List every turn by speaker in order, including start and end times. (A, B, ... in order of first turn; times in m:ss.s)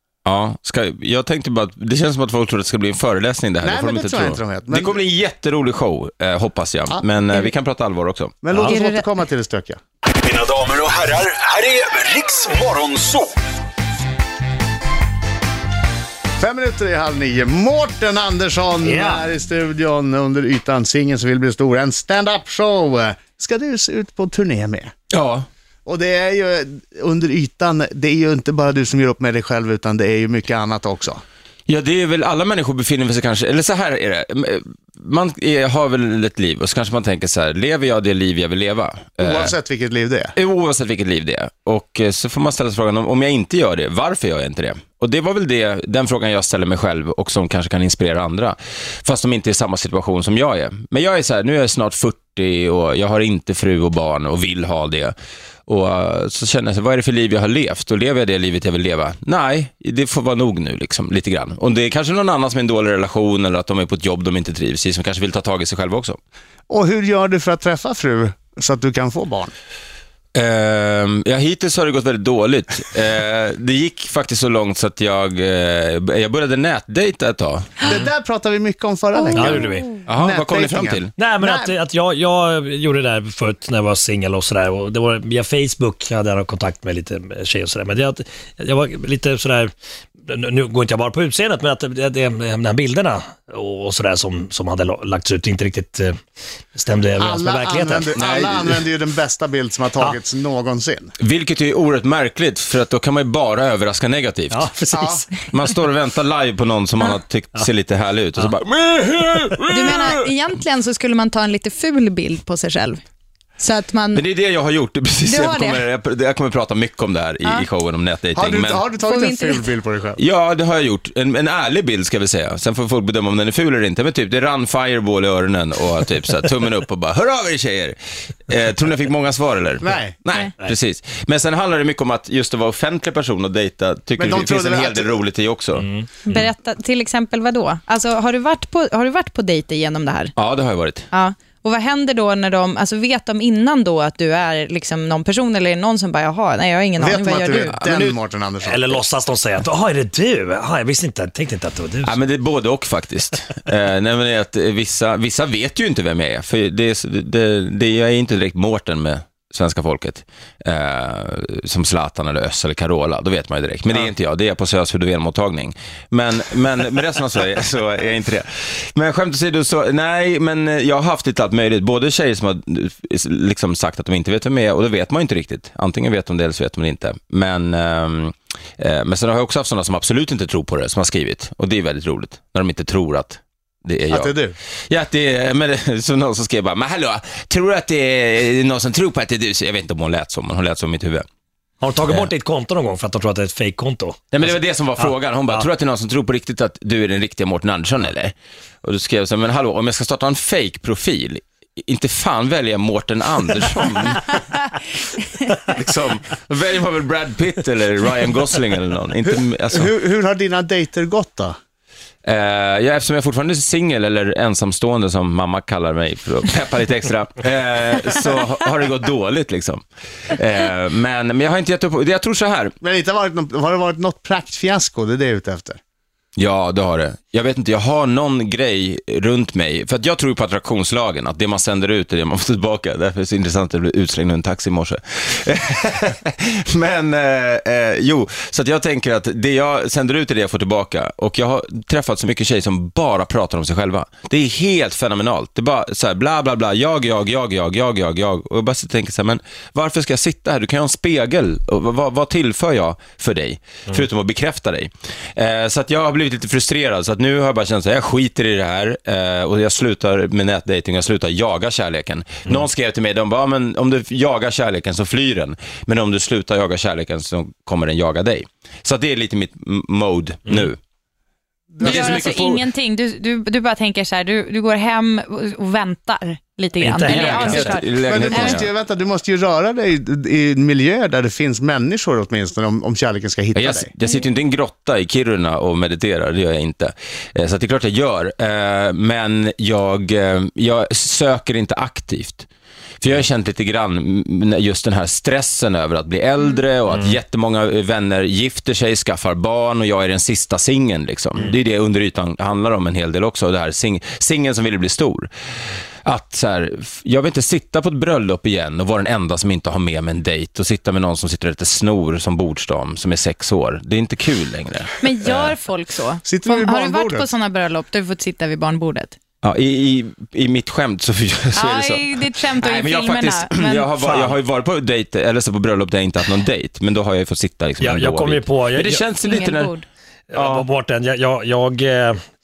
0:00.2-0:08.3 A
0:03.6-0:05.0 B
0:08.4-0:09.8 B
0:08.7-0:09.1 C
0:10.2-0:13.3 D
0:16.4-0:24.9 B
0:18.8-0:19.3 E
0:25.1-0:25.4 A
0:25.8-0:31.2 B
0:31.7-0:39.5 A
0:39.2-0:40.3 B
0:40.3-0:55.1 A
0:55.7-1:06.2 A
1:06.7-1:09.5 B
1:10.4-1:18.0 A
1:17.8-1:21.7 B
1:19.3-1:20.0 E
1:20.0-1:21.1 A
1:21.2-1:29.7 E
1:30.2-1:36.2 E
1:36.7-1:38.1 E
1:37.2-1:41.1 B
1:38.2-1:38.7 A
1:41.2-1:44.6 A
1:44.5-1:45.5 E
1:44.9-1:45.2 B
1:45.5-1:50.2 A
1:49.7-1:53.0 C
1:53.6-1:54.2 C
1:54.1-1:58.9 A
1:55.2-1:55.8 C
1:58.3-2:00.2 B
1:59.0-1:59.7 C
2:00.2-2:15.9 A
2:09.8-2:10.1 B
2:14.2-2:15.1 B
2:15.7-2:16.4 E
2:16.2-2:20.3 C
2:20.4-2:21.1 A
2:21.1-2:27.8 C
2:27.0-2:29.0 B
2:27.6-2:28.2 A
2:28.6-2:32.2 E
2:32.0-3:04.3 A
3:04.1-3:04.5 B
3:04.9-3:11.2 A
3:11.8-3:15.7 E
3:14.3-3:24.4 A
3:25.6-3:29.9 A
3:29.7-3:31.6 B
3:32.2-3:42.7 A
3:42.8-3:45.8 B
3:46.4-4:30.8 A
4:31.7-4:32.4 B
4:31.8-4:32.6 A
4:31.8-4:38.6 C
4:36.8-4:37.8 E
4:37.0-4:38.7 A
4:38.0-4:43.9 B
4:43.5-4:52.5 A
4:53.0-5:05.3 A
4:56.9-4:57.2 E
5:06.0-5:15.6 A
5:15.0-5:19.2 C
5:16.2-5:17.3 B
5:19.4-5:29.8 A
5:21.5-5:23.9 C
5:23.9-5:24.3 E
5:27.8-5:29.1 E
5:29.1-5:29.9 C
5:30.3-5:32.2 E
5:30.3-5:30.6 A